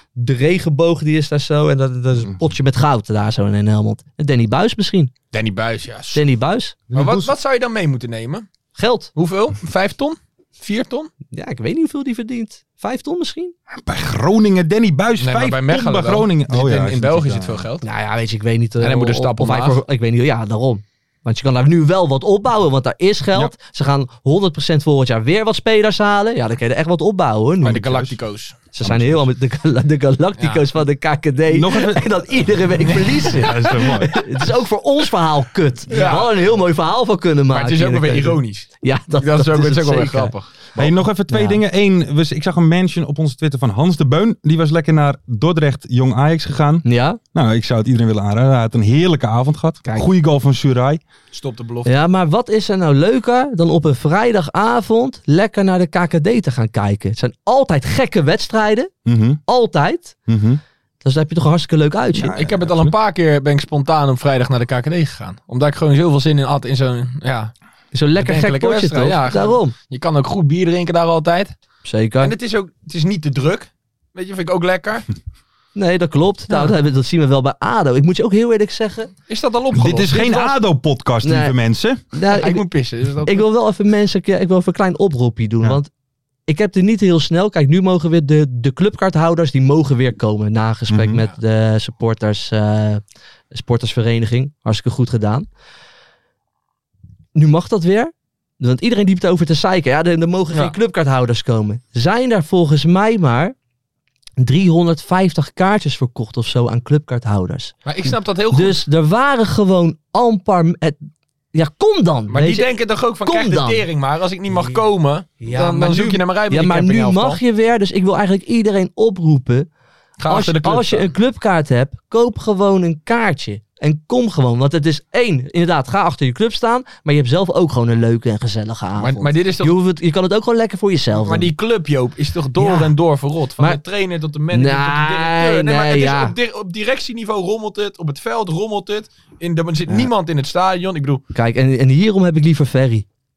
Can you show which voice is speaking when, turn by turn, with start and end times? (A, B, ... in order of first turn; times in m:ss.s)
0:00.2-0:05.1 A
0:05.3-0:06.2 B
0:06.1-0:06.8 A
0:06.9-0:07.3 C
0:06.9-0:08.5 B
0:08.8-0:09.1 A
0:09.2-0:11.1 B
0:11.3-0:13.5 A
0:13.8-0:17.7 C
0:15.2-0:17.8 B
0:17.8-0:28.2 A
0:18.8-0:19.8 B
0:27.6-0:28.7 B
0:28.7-0:41.6 A
0:28.8-0:29.2 C
0:31.5-0:32.5 C
0:32.9-0:33.7 B
0:33.3-0:34.2 C
0:35.9-0:36.4 B
0:37.5-0:40.5 B
0:40.8-0:51.0 C
0:46.8-0:47.2 A
0:51.3-0:51.9 B
0:51.9-0:58.9 A
0:59.0-0:59.4 C
0:59.5-1:00.2 A
1:00.3-1:00.6 C
1:01.0-1:02.4 A
1:02.2-1:03.0 C
1:02.4-1:07.5 B
1:07.9-1:09.7 A
1:08.2-1:11.5 B
1:11.8-1:12.3 A
1:12.2-1:15.1 B
1:15.8-1:19.1 A
1:19.3-1:20.4 B
1:19.7-1:22.0 C
1:20.1-1:20.6 A
1:21.2-1:21.6 A
1:22.1-1:22.6 A
1:22.3-1:23.5 B
1:23.2-1:25.9 A
1:26.5-1:35.5 A
1:30.9-1:31.2 C
1:37.4-1:43.6 A
1:44.4-1:47.8 A
1:47.8-1:48.8 B
1:48.5-1:51.0 A
1:51.5-1:52.7 A
1:52.3-1:57.4 B
1:53.2-1:53.9 A
1:55.4-1:59.7 A
2:00.2-2:01.1 B
2:00.3-2:11.5 A
2:09.0-2:09.8 B
2:11.1-2:21.2 B
2:12.6-2:12.9 A
2:14.5-2:16.3 A
2:21.3-2:23.1 A